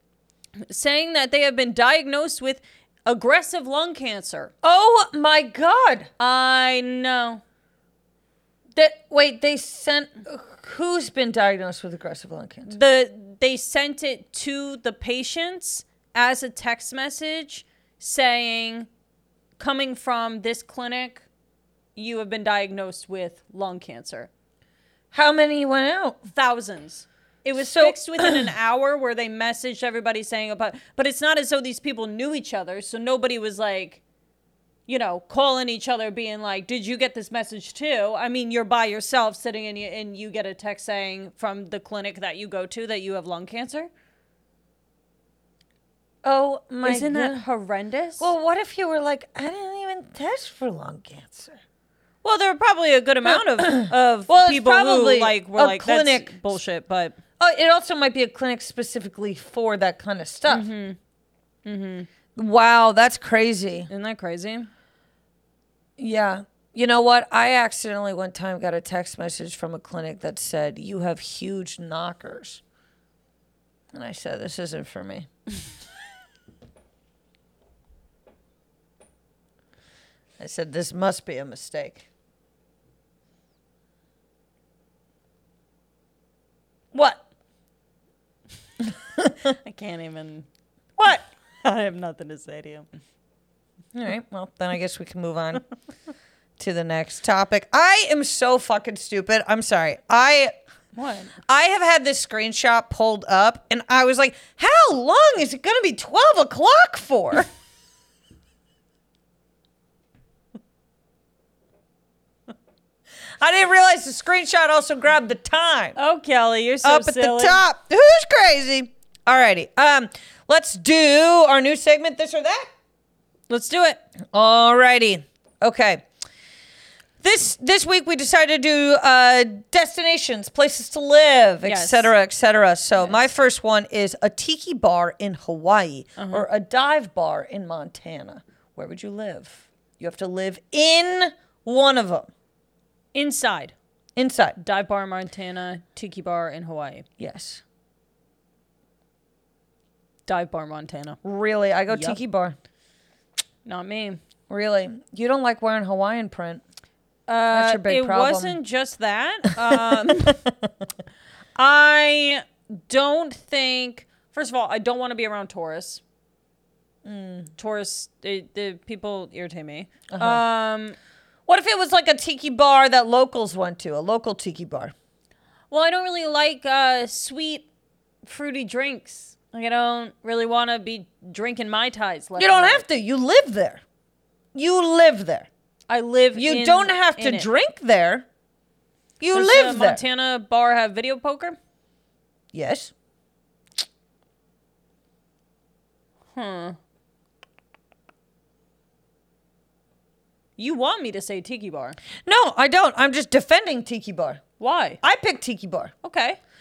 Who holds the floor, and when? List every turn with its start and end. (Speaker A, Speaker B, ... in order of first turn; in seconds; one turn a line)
Speaker A: 0.6-4.5
Speaker B: 4.6-6.1
Speaker A: 6.2-7.4
Speaker B: 8.8-12.8
Speaker A: 12.7-18.9
Speaker A: 19.6-21.2
Speaker A: 21.9-24.3
Speaker B: 25.1-26.2
Speaker A: 26.3-34.0
Speaker B: 27.6-28.4
Speaker A: 34.9-43.9
Speaker B: 46.2-47.4
Speaker A: 46.8-48.3
Speaker B: 48.2-51.6
Speaker A: 52.2-57.2
Speaker B: 53.2-56.5
Speaker B: 57.4-60.7
Speaker A: 60.5-61.0
Speaker A: 61.6-62.1
Speaker B: 62.3-63.9
Speaker A: 63.9-64.7
Speaker B: 66.0-72.6
Speaker B: 73.9-75.3
Speaker B: 80.4-82.0
Speaker B: 86.9-87.2
Speaker B: 89.2-89.5
Speaker A: 89.5-90.5
Speaker B: 91.0-91.2
Speaker A: 91.6-92.9
Speaker B: 93.9-95.6
Speaker B: 96.6-100.5
Speaker A: 100.9-101.3
Speaker B: 101.5-107.5
Speaker B: 113.4-116.0
Speaker A: 116.0-117.6
Speaker B: 116.8-122.7
Speaker A: 123.5-124.0
Speaker B: 124.3-126.0
Speaker B: 127.2-142.3
Speaker A: 131.6-132.1
Speaker A: 136.2-136.4
Speaker A: 143.1-143.7
Speaker B: 144.2-144.6
Speaker A: 144.6-147.1
Speaker B: 147.2-147.6
Speaker A: 150.2-151.2
Speaker B: 151.2-152.6
Speaker A: 151.9-152.2
Speaker A: 153.6-154.2
Speaker B: 154.5-156.6
Speaker A: 157.3-160.4
Speaker B: 157.5-158.6
Speaker B: 159.7-159.9
Speaker A: 161.6-166.0
Speaker B: 167.0-167.5
Speaker A: 167.6-171.0
Speaker B: 170.1-170.4
Speaker B: 171.5-174.9
Speaker A: 175.7-177.7
Speaker A: 178.2-182.8
Speaker B: 182.4-183.8
Speaker B: 184.5-185.5
Speaker A: 185.9-187.5
Speaker B: 186.3-188.3
Speaker B: 189.2-190.0
Speaker A: 189.3-191.6
Speaker B: 192.5-192.9
Speaker A: 196.3-196.8
Speaker A: 200.6-202.0
Speaker B: 202.2-204.4
Speaker A: 204.6-205.0
Speaker B: 205.0-205.9
Speaker A: 206.0-206.4